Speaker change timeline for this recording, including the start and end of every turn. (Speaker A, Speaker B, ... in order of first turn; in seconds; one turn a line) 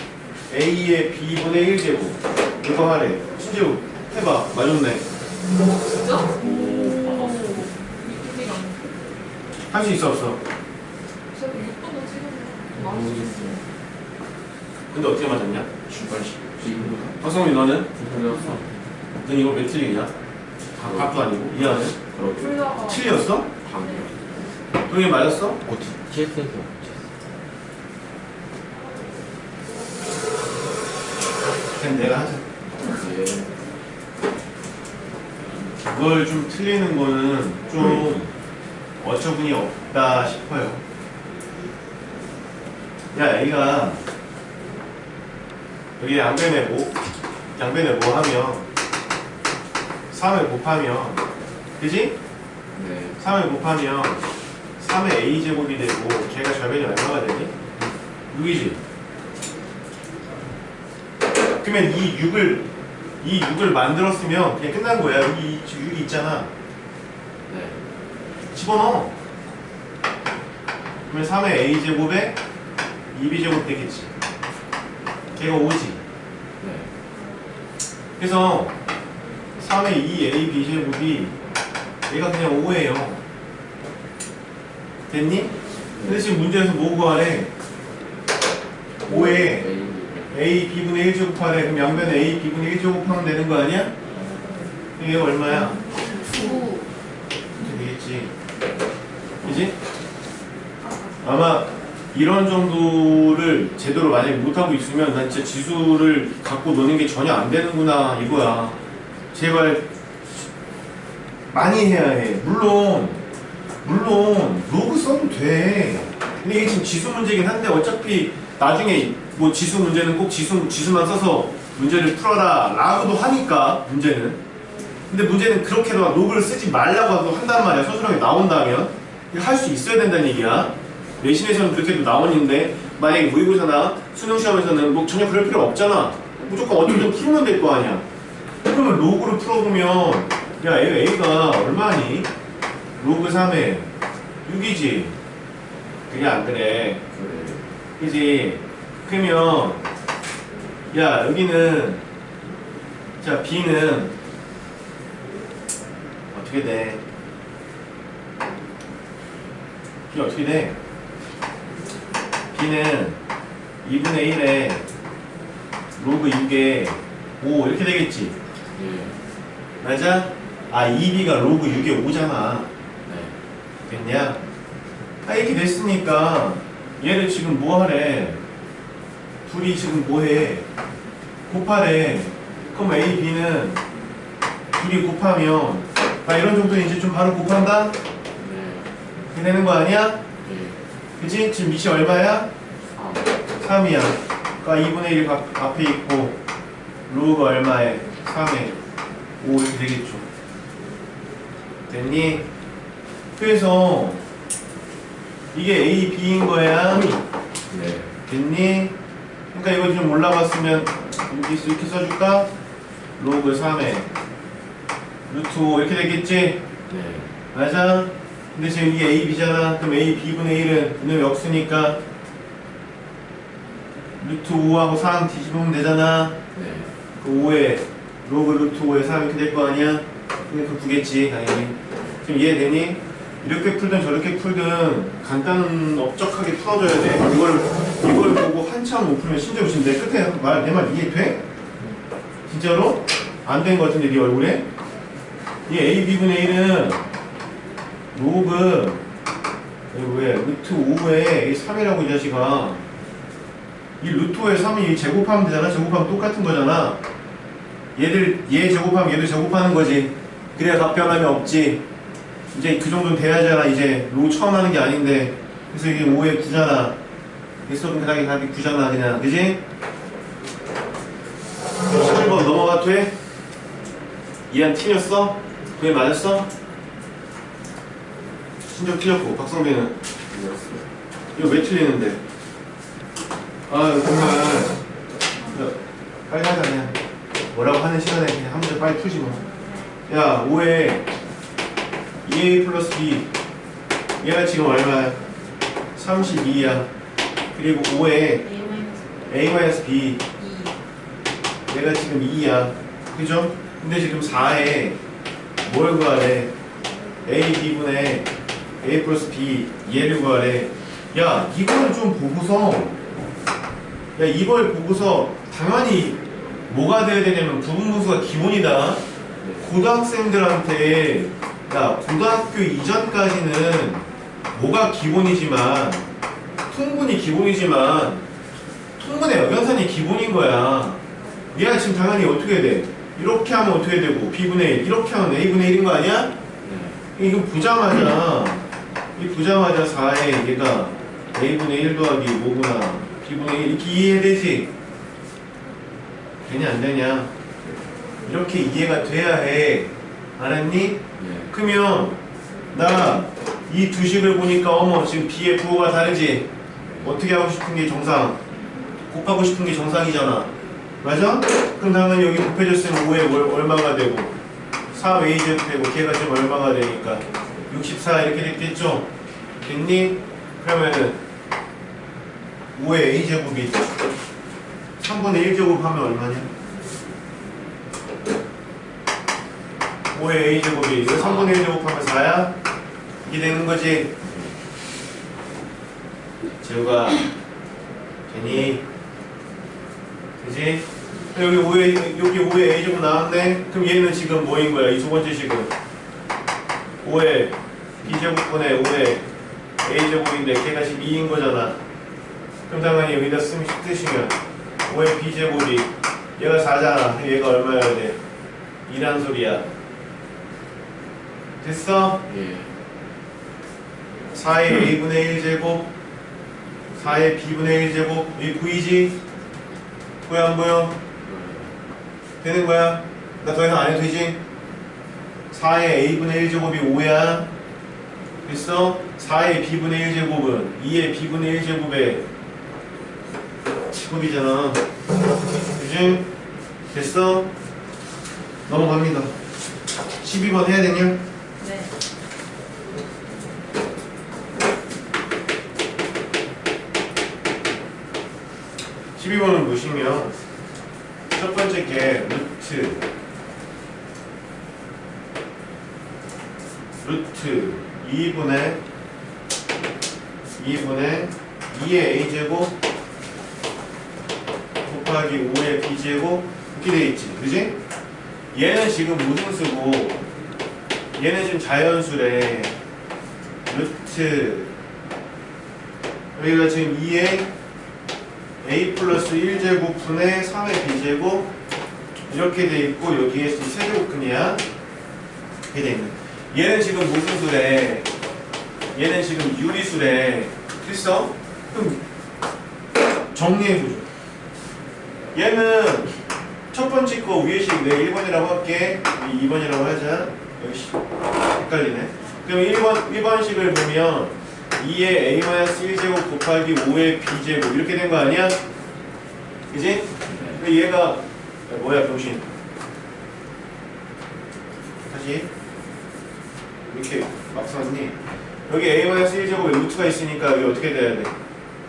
Speaker A: 0.5-5.0
Speaker B: 5.9-8.9
Speaker C: 6.4-7.7
Speaker A: 9.7-10.4
Speaker B: 11.3-13.6
Speaker C: 12.8-13.6
Speaker A: 14.9-15.7
Speaker C: 15.9-17.2
Speaker A: 17.2-17.9
Speaker C: 18.0-18.7
Speaker A: 19.2-20.1
Speaker C: 20.8-22.8
Speaker A: 20.8-22.0
Speaker B: 22.4-23.0
Speaker A: 22.8-23.5
Speaker C: 23.6-24.2
Speaker A: 24.9-25.6
Speaker C: 25.6-27.0
Speaker A: 31.8-32.4
Speaker C: 32.8-33.5
Speaker A: 35.9-38.3
Speaker A: 39.0-40.8
Speaker A: 43.1-44.0
Speaker A: 46.0-46.9
Speaker A: 47.6-48.6
Speaker A: 50.1-51.2
Speaker A: 51.8-52.2
Speaker C: 52.8-53.2
Speaker A: 53.2-54.2
Speaker A: 54.8-57.5
Speaker A: 58.3-58.8
Speaker A: 61.6-62.7
Speaker A: 63.2-66.5
Speaker C: 67.5-67.8
Speaker A: 68.5-69.1
Speaker A: 71.1-72.4
Speaker A: 73.1-74.1
Speaker A: 75.4-76.0
Speaker C: 76.6-76.9
Speaker A: 78.2-78.8
Speaker A: 79.6-81.4
Speaker A: 82.1-83.2
Speaker A: 85.1-87.5
Speaker C: 86.0-86.3
Speaker A: 89.0-89.7
Speaker C: 89.1-90.3
Speaker A: 90.3-93.9
Speaker A: 95.0-95.8
Speaker B: 95.6-96.8
Speaker A: 97.6-98.3
Speaker A: 99.4-99.8
Speaker B: 100.8-101.1
Speaker A: 101.2-108.8
Speaker A: 109.3-109.9
Speaker A: 111.5-113.2
Speaker A: 113.8-124.4
Speaker A: 125.1-138.1
Speaker A: 138.7-142.3
Speaker A: 143.0-143.9
Speaker A: 144.4-145.2
Speaker A: 146.1-147.0
Speaker C: 147.1-147.7
Speaker A: 148.0-149.8
Speaker A: 150.9-152.0
Speaker A: 153.2-154.1
Speaker A: 156.3-157.0
Speaker A: 160.1-160.8
Speaker A: 162.5-163.2
Speaker A: 163.8-164.8
Speaker A: 166.0-168.4
Speaker C: 168.8-169.2
Speaker A: 169.8-172.7
Speaker C: 173.1-173.3
Speaker A: 173.9-174.4
Speaker A: 175.2-178.4
Speaker A: 179.5-180.7
Speaker A: 181.5-183.8
Speaker A: 184.8-188.0
Speaker C: 188.4-188.9
Speaker A: 189.3-190.2
Speaker C: 190.4-190.8
Speaker A: 191.2-192.5
Speaker C: 192.9-193.4
Speaker A: 193.6-196.4
Speaker A: 197.1-198.8
Speaker A: 199.4-200.3
Speaker A: 201.9-202.5
Speaker A: 203.4-204.2
Speaker A: 205.5-207.2
Speaker C: 207.7-208.1
Speaker A: 208.2-208.9
Speaker A: 209.5-212.5
Speaker A: 213.2-214.1
Speaker A: 215.3-216.6
Speaker C: 216.9-217.3
Speaker A: 217.5-222.0
Speaker A: 224.2-226.4
Speaker C: 226.5-226.9
Speaker A: 227.2-241.4
Speaker A: 242.5-244.7
Speaker A: 245.7-247.0
Speaker A: 248.1-249.0
Speaker A: 249.9-252.8
Speaker A: 254.0-257.0
Speaker A: 257.9-261.8
Speaker A: 262.5-267.0
Speaker A: 267.7-269.6
Speaker A: 271.9-273.1
Speaker A: 274.5-276.5
Speaker A: 278.7-279.9
Speaker C: 280.3-280.9
Speaker A: 281.4-282.2
Speaker A: 283.7-284.8
Speaker A: 285.5-285.8
Speaker A: 286.3-287.0
Speaker A: 287.5-289.4
Speaker A: 290.1-291.1
Speaker A: 292.2-293.3
Speaker A: 294.2-295.2
Speaker A: 296.0-296.9
Speaker A: 297.5-298.5
Speaker B: 298.5-299.2
Speaker A: 299.3-300.2
Speaker B: 300.4-300.8
Speaker A: 301.7-305.0
Speaker A: 305.6-306.5
Speaker A: 307.2-313.0
Speaker A: 314.2-319.0
Speaker A: 319.6-326.1
Speaker A: 326.7-328.2
Speaker A: 329.0-331.0
Speaker A: 331.5-336.4
Speaker C: 336.6-337.0
Speaker A: 337.1-338.6
Speaker A: 339.2-344.7
Speaker A: 346.4-347.3
Speaker A: 348.2-352.2
Speaker C: 351.2-351.5
Speaker A: 352.7-356.5
Speaker C: 356.9-357.1
Speaker A: 357.0-358.4
Speaker A: 359.1-360.5
Speaker A: 361.0-364.4
Speaker A: 364.9-369.1
Speaker A: 369.6-371.2
Speaker A: 372.8-373.9
Speaker A: 375.0-376.5
Speaker A: 380.1-382.5
Speaker A: 383.2-384.2
Speaker A: 386.6-387.3
Speaker A: 388.3-388.8
Speaker A: 390.4-395.7
Speaker A: 397.0-399.2
Speaker A: 399.8-401.8
Speaker A: 402.7-408.2
Speaker A: 408.9-409.7
Speaker A: 411.6-412.2
Speaker C: 412.3-412.7
Speaker A: 414.3-415.9
Speaker A: 417.0-419.2
Speaker A: 420.3-421.0
Speaker C: 421.2-421.7
Speaker A: 422.4-424.4
Speaker A: 425.5-427.5
Speaker A: 428.5-432.2
Speaker A: 433.9-434.8
Speaker A: 435.8-436.3
Speaker A: 436.9-437.5
Speaker A: 438.7-439.3
Speaker A: 440.2-441.2
Speaker B: 441.6-441.9
Speaker A: 449.2-450.4
Speaker A: 451.3-453.0
Speaker A: 457.0-458.8
Speaker A: 460.6-462.7
Speaker A: 464.8-467.8
Speaker A: 468.5-470.2
Speaker A: 471.2-472.7
Speaker A: 473.7-474.7
Speaker A: 476.4-477.5
Speaker A: 478.6-481.5
Speaker A: 482.3-484.6
Speaker A: 485.7-488.1
Speaker A: 488.9-492.0
Speaker A: 493.3-494.1
Speaker A: 495.3-496.1
Speaker A: 496.7-508.6
Speaker A: 509.7-512.5
Speaker C: 510.3-510.6
Speaker A: 515.0-515.5
Speaker A: 516.9-518.2
Speaker A: 518.7-521.3